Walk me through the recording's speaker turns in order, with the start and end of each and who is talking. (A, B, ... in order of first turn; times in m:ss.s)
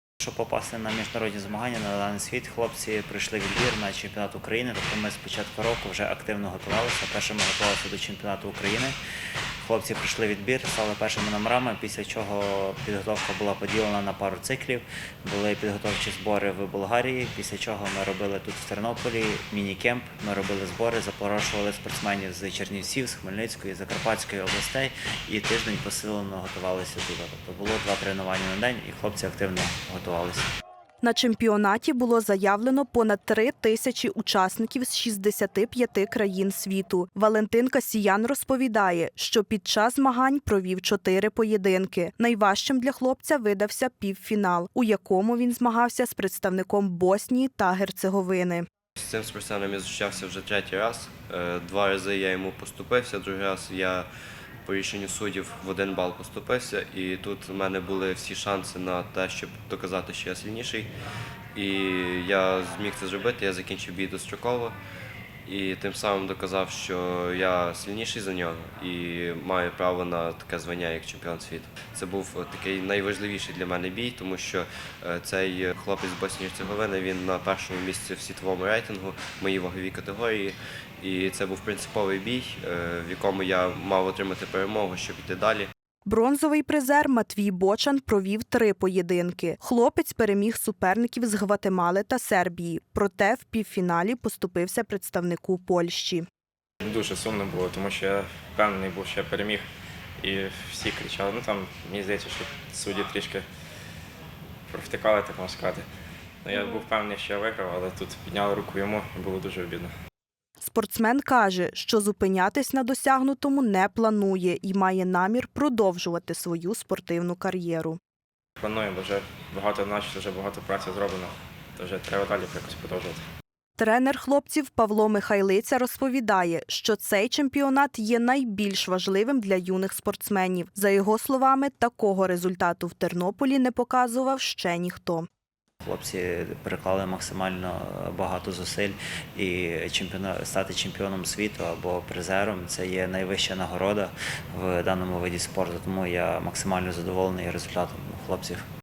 0:00.2-0:09.0 A
0:09.6-0:30.5 A
0:31.0-0:48.6 B
0:49.0-0:54.1 C
0:54.6-1:00.9 C
1:01.5-1:04.7 C
1:05.4-1:25.7 C
1:26.1-1:36.2 B
1:36.8-1:39.6 D
1:40.2-1:43.4 D
1:44.7-1:45.8 D
1:46.4-1:49.9 D
1:50.6-1:58.0 B
1:58.6-2:03.2 D
2:03.8-2:15.3 B
2:15.8-2:28.6 A